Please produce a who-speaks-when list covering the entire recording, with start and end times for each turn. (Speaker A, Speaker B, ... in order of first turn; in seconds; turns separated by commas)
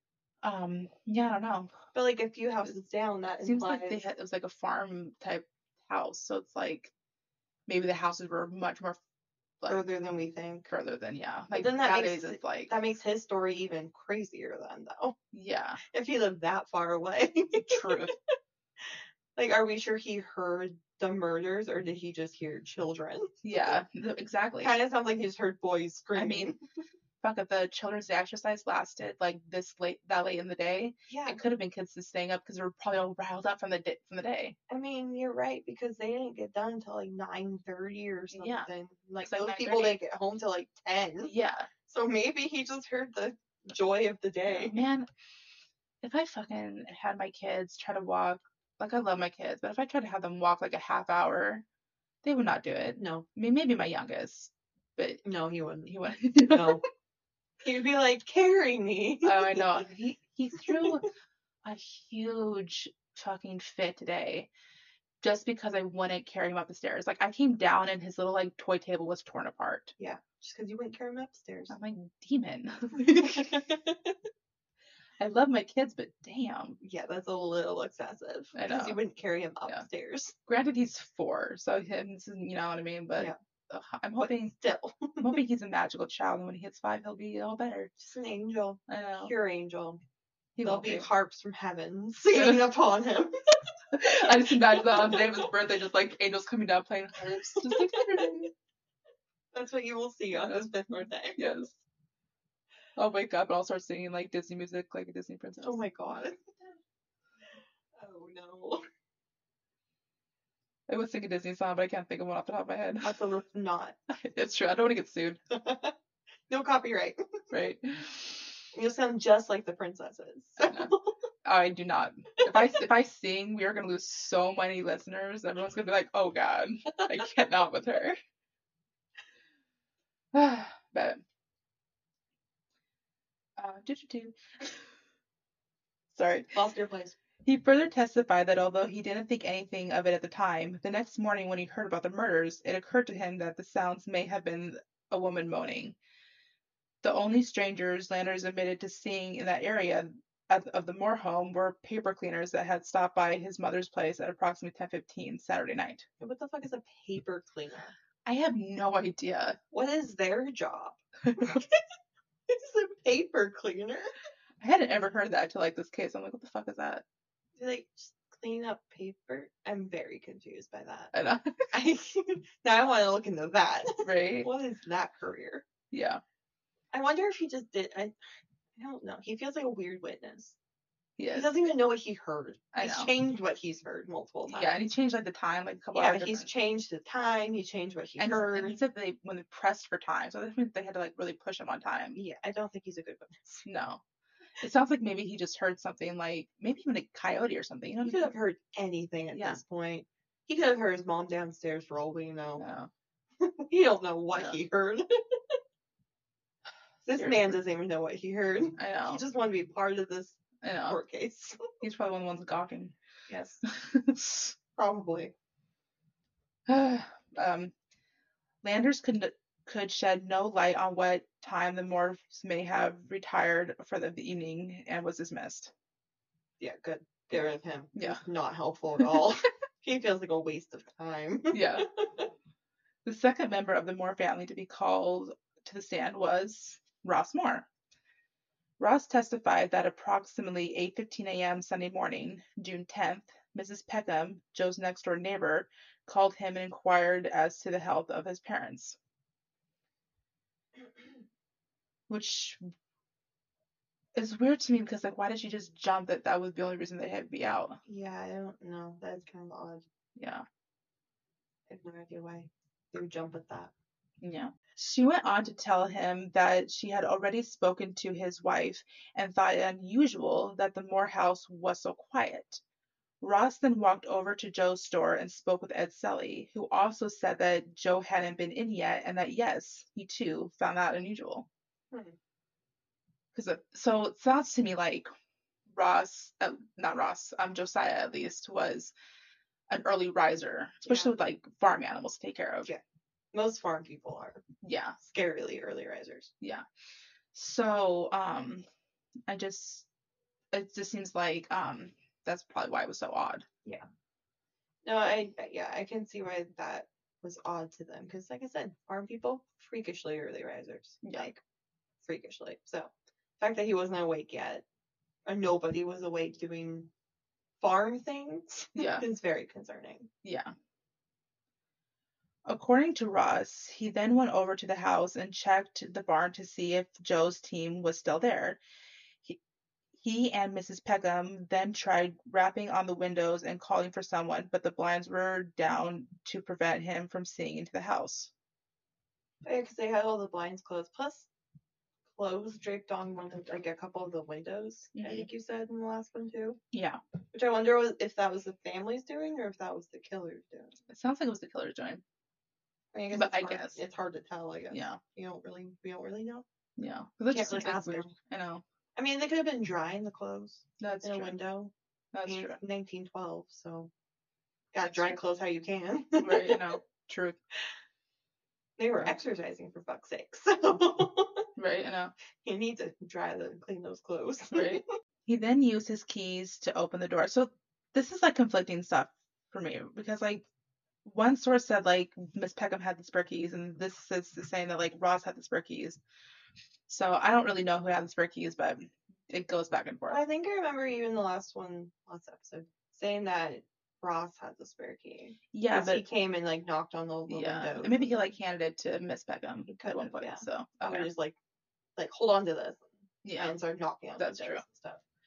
Speaker A: 0.4-1.7, Speaker B: 1.9-4.1, Speaker A: 3.4-6.9, Speaker A: 7.7-9.0, Speaker B: 9.7-10.7, Speaker A: 10.7-12.7, Speaker B: 11.5-15.2, Speaker A: 15.3-15.8, Speaker B: 15.9-18.1, Speaker A: 17.7-18.1, Speaker B: 19.4-23.3, Speaker A: 23.4-24.7, Speaker B: 24.6-26.6, Speaker A: 26.1-26.5, Speaker A: 27.2-34.6, Speaker B: 31.1-31.4, Speaker B: 34.7-41.3, Speaker A: 38.3-38.7, Speaker A: 39.2-40.0, Speaker A: 41.3-41.7, Speaker B: 41.9-44.8, Speaker A: 44.5-45.1, Speaker A: 46.0-51.6, Speaker A: 52.2-55.2, Speaker B: 53.0-53.3, Speaker B: 55.2-56.8, Speaker A: 55.9-56.8, Speaker B: 57.6-59.9, Speaker A: 59.2-61.1, Speaker B: 60.6-60.9, Speaker A: 61.6-64.5, Speaker A: 65.2-69.9, Speaker B: 70.0-71.8, Speaker A: 71.7-73.6, Speaker B: 73.2-74.2, Speaker A: 75.2-76.8, Speaker B: 76.8-80.4, Speaker A: 78.5-79.0, Speaker A: 80.5-84.5, Speaker B: 84.2-85.4, Speaker A: 85.2-87.9, Speaker B: 88.0-90.0, Speaker A: 88.9-89.3, Speaker A: 90.6-91.1, Speaker B: 90.6-93.3, Speaker A: 92.3-92.6, Speaker A: 93.9-98.5, Speaker B: 94.1-95.5, Speaker B: 97.5-98.4, Speaker B: 99.5-101.4, Speaker A: 101.4-101.8, Speaker A: 103.0-105.8, Speaker B: 105.6-106.6, Speaker B: 108.0-108.8, Speaker A: 110.9-113.2, Speaker B: 113.0-114.0, Speaker A: 114.1-115.4, Speaker B: 115.5-115.9, Speaker B: 116.5-117.4, Speaker A: 117.5-118.6, Speaker B: 118.7-121.2, Speaker A: 120.6-120.9, Speaker A: 121.5-128.2, Speaker B: 122.4-122.7, Speaker A: 130.3-131.2, Speaker A: 133.6-134.9, Speaker A: 136.1-136.5, Speaker B: 136.5-137.2, Speaker A: 137.4-146.0, Speaker A: 147.0-156.1, Speaker B: 156.2-157.9, Speaker A: 158.3-159.6, Speaker B: 159.7-161.8, Speaker A: 161.3-161.6, Speaker B: 162.5-164.1, Speaker A: 164.6-167.0, Speaker B: 167.6-171.1, Speaker A: 171.1-171.6, Speaker B: 171.7-175.7, Speaker A: 174.0-174.5, Speaker A: 175.9-176.2, Speaker B: 176.9-178.1, Speaker B: 178.8-180.6, Speaker A: 181.2-181.5, Speaker B: 181.3-184.8, Speaker A: 182.7-183.1, Speaker A: 184.5-186.5, Speaker B: 185.9-188.8, Speaker A: 188.2-192.2, Speaker B: 192.2-193.7, Speaker A: 193.7-194.0, Speaker A: 194.6-198.3, Speaker B: 198.0-202.7, Speaker A: 199.3-199.6, Speaker A: 202.6-202.9, Speaker B: 203.4-205.6, Speaker A: 204.3-204.6, Speaker B: 207.1-211.6, Speaker A: 207.2-207.5, Speaker A: 208.8-209.2, Speaker A: 210.6-211.0, Speaker A: 211.8-212.9, Speaker B: 213.3-213.6, Speaker A: 213.7-214.6, Speaker B: 214.8-215.3, Speaker A: 216.7-217.7, Speaker A: 218.6-225.7, Speaker B: 226.6-232.3, Speaker A: 227.3-228.2, Speaker A: 231.5-231.9, Speaker A: 233.1-237.7, Speaker A: 238.8-249.0, Speaker A: 252.1-252.6, Speaker A: 254.2-257.8, Speaker B: 257.9-259.9, Speaker A: 260.2-260.4, Speaker B: 261.7-263.7, Speaker A: 264.2-272.6, Speaker A: 273.2-281.5, Speaker B: 281.9-282.2, Speaker A: 283.4-285.1, Speaker A: 285.7-288.9, Speaker A: 289.7-292.7, Speaker B: 290.9-291.1, Speaker B: 293.3-294.4, Speaker A: 294.6-295.0, Speaker B: 295.0-296.3, Speaker A: 297.3-298.6, Speaker A: 299.3-299.9, Speaker A: 300.5-303.4, Speaker B: 304.9-311.4, Speaker A: 311.0-311.3, Speaker B: 312.0-314.6, Speaker B: 315.3-316.9, Speaker B: 317.6-320.1, Speaker A: 318.8-319.0, Speaker A: 320.2-320.5, Speaker A: 322.5-328.6, Speaker A: 330.0-338.3, Speaker B: 339.4-341.3, Speaker B: 342.1-346.6, Speaker A: 344.9-345.3, Speaker A: 346.7-347.0, Speaker B: 347.3-350.8, Speaker A: 350.9-352.0, Speaker B: 352.9-356.4, Speaker A: 353.1-353.8, Speaker A: 354.7-355.0, Speaker A: 356.8-358.6, Speaker B: 357.3-358.1, Speaker B: 359.0-361.7, Speaker A: 360.8-361.4, Speaker A: 362.1-362.6, Speaker B: 362.3-363.9, Speaker B: 364.7-366.7, Speaker A: 364.9-365.2, Speaker A: 366.2-367.4, Speaker B: 368.8-371.5, Speaker A: 371.6-372.1, Speaker B: 372.4-374.8, Speaker A: 374.5-380.4, Speaker A: 381.0-386.0, Speaker A: 386.9-390.2, Speaker B: 390.1-398.2, Speaker A: 395.5-396.0, Speaker A: 397.3-401.1, Speaker B: 399.7-401.4, Speaker B: 402.0-405.0, Speaker A: 403.2-403.5, Speaker A: 404.2-404.6